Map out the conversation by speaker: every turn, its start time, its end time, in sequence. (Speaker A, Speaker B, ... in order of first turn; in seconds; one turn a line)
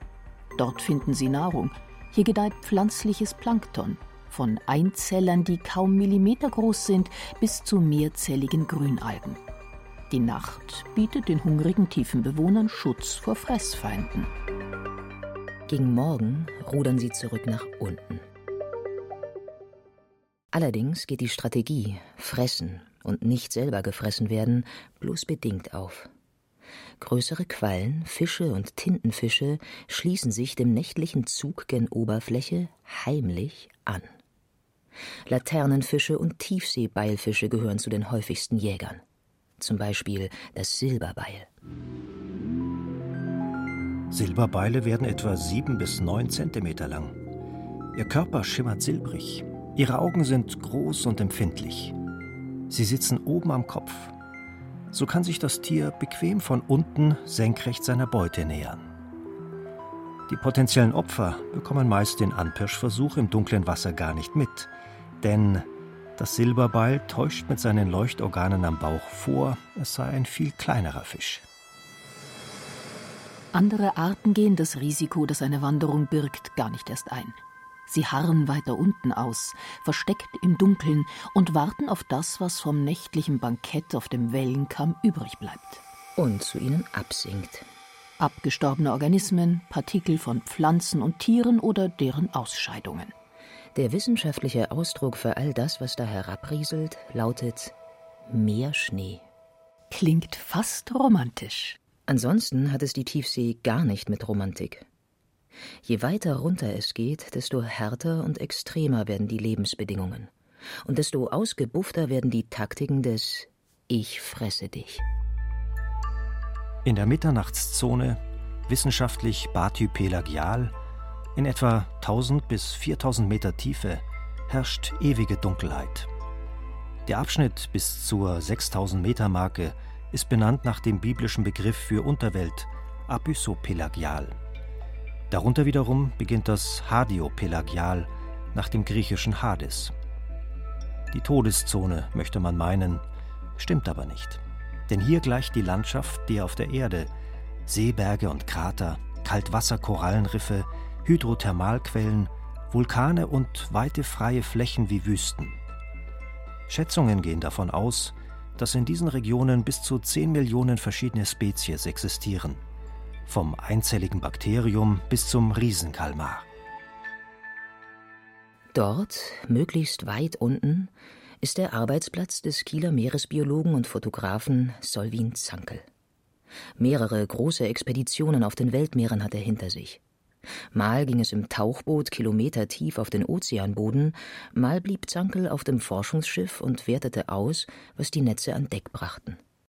Speaker A: 0.6-9.4
Speaker A: 10.1-14.3
Speaker B: 15.7-18.2
Speaker B: 20.5-26.1
Speaker B: 27.0-34.1
Speaker B: 35.3-39.0
Speaker B: 39.6-41.5
Speaker C: 44.1-47.2
Speaker C: 48.0-52.0
Speaker C: 52.7-54.1
Speaker C: 54.9-58.9
Speaker C: 60.3-64.7
Speaker C: 65.2-71.5
Speaker A: 73.5-77.4
Speaker A: 77.9-85.8
Speaker B: 86.2-87.7
Speaker A: 88.2-93.1
Speaker B: 93.7-97.7
Speaker B: 98.3-99.2
Speaker A: 99.9-101.8
Speaker B: 102.1-104.8
Speaker B: 105.8-110.3
Speaker B: 110.8-115.0
Speaker C: 116.8-120.7
Speaker C: 121.4-126.1
Speaker C: 127.1-134.4
Speaker C: 135.3-139.9
Speaker C: 141.1-143.0
Speaker C: 143.6-147.1
Speaker C: 147.7-155.6
Speaker C: 156.7-162.6
Speaker C: 163.3-166.5
Speaker B: 168.7-175.8
Speaker B: 176.8-180.0
Speaker B: 180.7-189.4